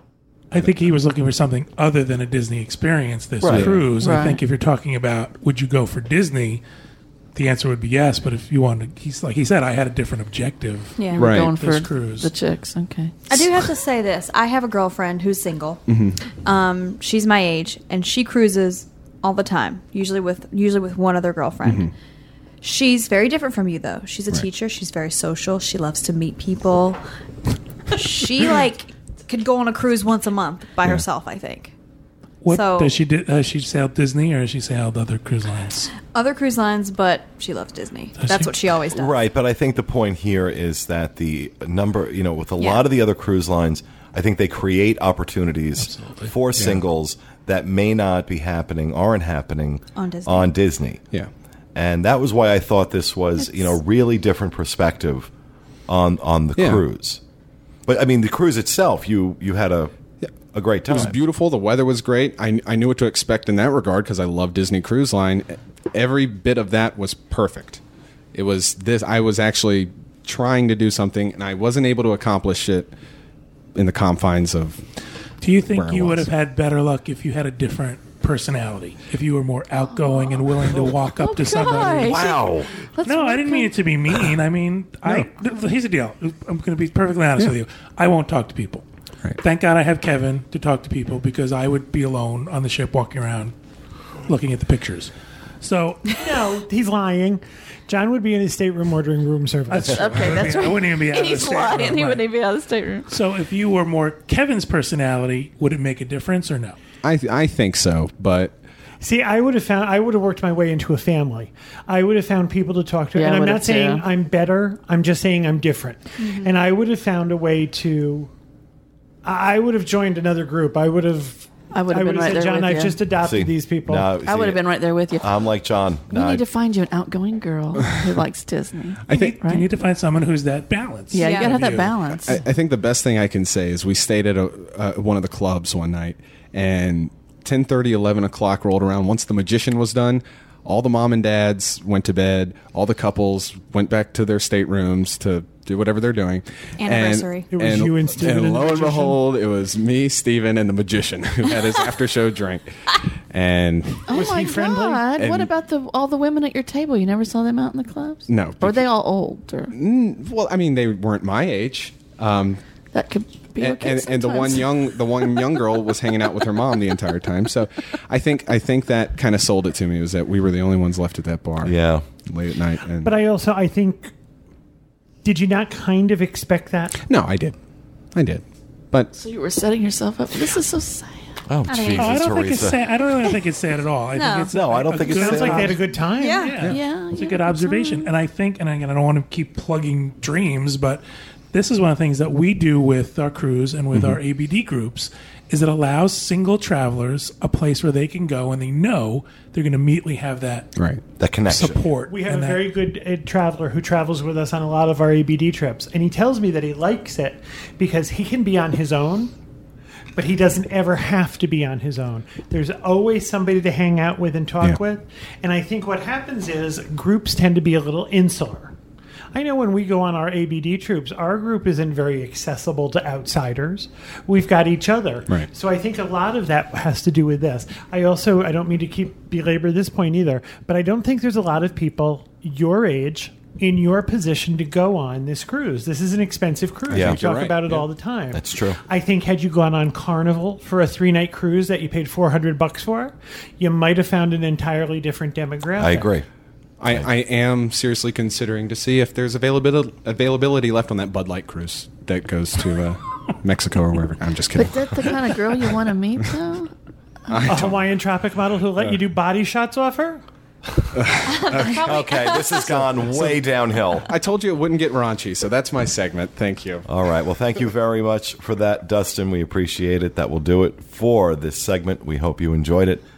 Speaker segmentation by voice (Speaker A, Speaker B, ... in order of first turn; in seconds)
Speaker A: 0.5-6.6, 7.3-12.3, 32.4-35.9, 38.2-38.5, 75.4-82.2, 83.0-88.8, 89.4-93.5, 94.2-96.1, 99.7-102.2, 103.1-106.8, 129.1-131.9, 181.9-200.7, 201.4-202.7
Speaker B: 3.4-3.7, 38.9-51.0, 51.7-55.3, 55.9-57.2, 57.9-59.9, 60.5-61.1, 82.0-82.7, 123.2-124.7, 125.2-126.4, 171.6-172.0, 181.5-182.8, 184.5-185.8, 201.2-201.8, 236.9-237.2, 238.3-238.8, 245.8-246.2, 261.6-264.1, 266.9-273.0
Speaker C: 3.5-3.8, 11.2-11.5, 15.9-16.2, 21.6-21.9, 46.5-46.8, 56.6-56.8, 60.9-67.8, 68.3-72.9, 73.8-74.8, 75.7-76.3, 107.0-108.5, 129.1-129.4, 132.2-154.1, 155.2-155.5, 158.3-158.9, 159.7-162.6, 163.6-173.1, 177.0-177.6, 178.1-179.1, 193.9-194.2, 200.8-201.0, 236.9-237.9, 246.8-255.2, 257.3-257.9, 260.9-261.9, 264.0-266.9
Speaker D: 4.0-4.4, 11.2-13.5, 79.9-80.4, 81.0-83.7, 99.8-103.1, 113.1-114.0, 121.7-123.0, 124.2-125.3, 126.1-129.7, 131.1-132.4, 154.1-159.7, 162.9-165.6, 179.2-181.4, 186.7-188.1, 254.5-256.7
Speaker E: 11.0-11.3, 13.3-15.8, 16.4-21.9, 22.6-27.0, 27.9-31.7, 32.5-33.0, 36.0-39.2, 42.6-42.8, 50.0-50.5, 53.4-53.7, 116.2-116.5, 131.2-131.8, 146.8-147.5, 181.7-182.2, 184.2-184.5, 186.2-186.6, 261.2-262.8
Speaker F: 96.1-100.5, 109.0-118.3, 119.2-124.1, 147.5-149.2, 154.1-155.1, 173.0-174.1, 175.2-177.0, 185.1-186.7, 202.1-209.3, 210.1-218.7, 219.3-246.1, 257.4-260.2